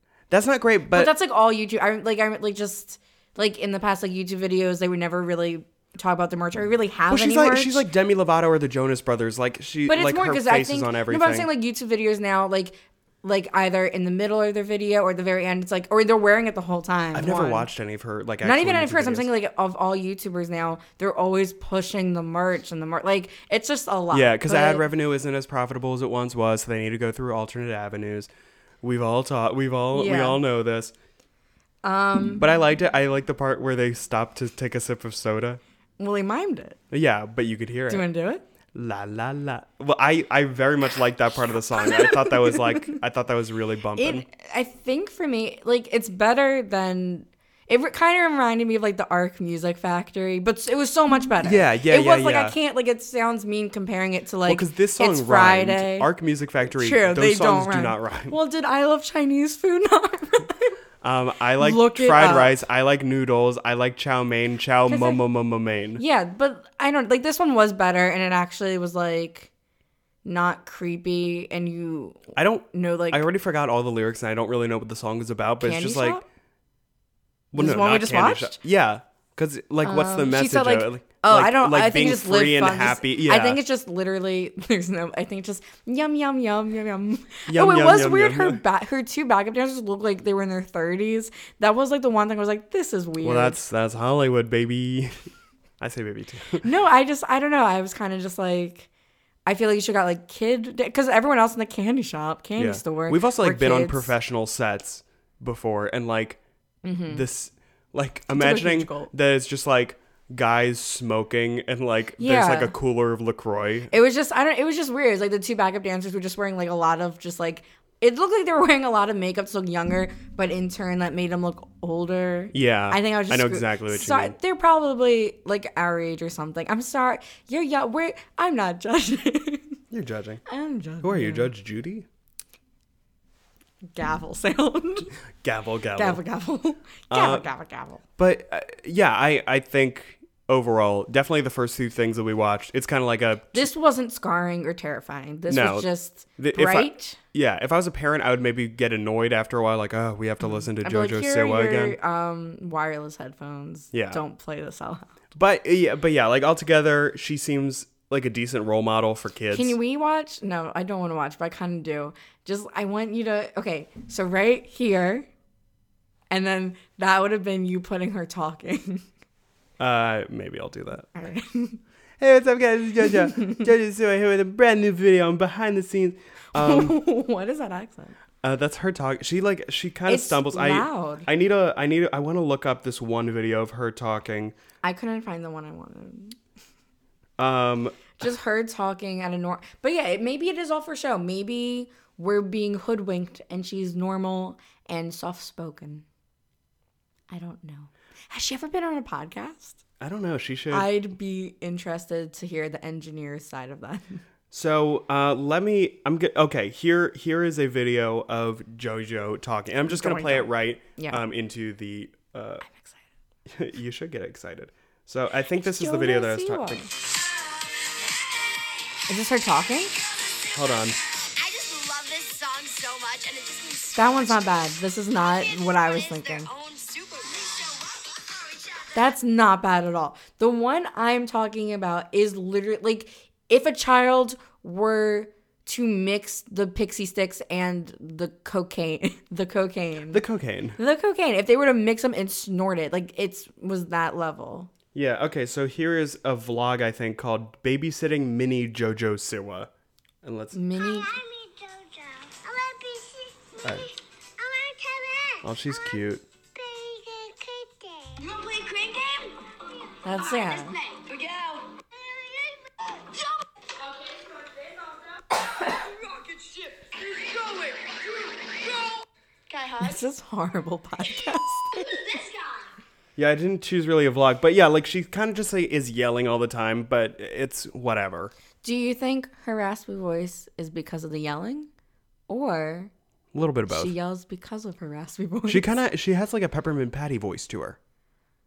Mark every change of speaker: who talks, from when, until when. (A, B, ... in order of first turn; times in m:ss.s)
0:00.3-0:01.1 A
0:00.9-0:07.9 B
0:07.1-0:11.5 A
0:09.9-0:17.7 B
0:17.1-0:19.3 A
0:18.4-0:24.8 B
0:24.1-0:28.3 A
0:28.8-0:30.9 A
0:29.9-0:30.4 B
0:31.8-0:32.4 B
0:32.4-0:35.6 A
0:36.0-0:36.8 B
0:36.9-0:38.0 A
0:37.9-0:38.4 B
0:38.7-0:44.2 A
0:41.7-0:42.9 B
0:44.0-0:56.1 B
0:51.4-0:52.6 A
0:54.4-0:58.4 A
0:56.7-1:00.7 B
1:01.0-1:06.0 A
1:01.6-1:02.6 B
1:04.9-1:05.2 B
1:06.0-1:09.5 B
1:10.2-1:13.2 B
1:12.4-1:16.2 A
1:15.6-1:16.2 B
1:17.5-1:23.6 A
1:17.5-1:18.6 B
1:19.8-1:33.6 B
1:27.5-1:28.6 A
1:33.2-1:35.3 A
1:35.8-1:36.6 A
1:36.6-1:38.9 B
1:39.4-1:44.1 B
1:42.6-1:46.4 A
1:46.8-1:47.2 B
1:47.1-1:53.9 A
1:48.3-1:49.1 B
1:52.2-1:52.7 B
1:53.9-2:09.7 B
2:02.5-2:04.3 A
2:09.9-2:10.4 A
2:10.5-2:11.5 B
2:11.0-2:12.0 A
2:13.9-2:15.1 B
2:15.4-2:16.2 A
2:15.9-2:18.0 B
2:17.1-2:17.5 A
2:18.2-2:23.7 A
2:23.5-2:27.2 B
2:25.5-2:32.0 A
2:30.4-2:35.1 B
2:33.9-2:34.2 A
2:35.3-2:39.7 A
2:39.5-2:45.3 B
2:46.3-2:49.0 B
2:49.8-2:51.1 A
2:51.1-2:51.8 B
2:52.2-2:57.0 A
2:53.0-2:53.7 B
2:56.5-2:58.2 B
2:58.4-3:04.5 A
3:00.0-3:01.3 B
3:04.8-3:06.4 B
3:07.4-3:08.2 A
3:08.2-3:16.0 B
3:17.3-3:19.8 B
3:20.0-3:20.9 A
3:20.7-3:24.2 B
3:24.5-3:32.6 A
3:29.9-3:31.2 B
3:32.7-3:33.0 B
3:33.5-3:36.9 A
3:35.6-3:36.9 B
3:39.1-3:39.9 B
3:40.5-3:41.0 A
3:41.2-3:49.0 C
3:43.9-3:46.5 B
3:48.9-4:00.2 B
4:00.1-4:00.8 A
4:00.8-4:04.7 B
4:04.9-4:09.7 A
4:10.2-4:10.6 A
4:10.5-4:11.2 B
4:10.8-4:15.9 C
4:13.6-4:13.9 A
4:15.4-4:16.2 A
4:16.5-4:30.0 C
4:20.0-4:20.8 B
4:29.8-4:32.0 B
4:31.7-4:32.7 C
4:33.2-4:38.3 A
4:38.6-4:41.7 B
4:42.3-4:42.9 B
4:43.3-4:43.9 A
4:43.7-4:45.8 B
4:45.5-4:47.8 A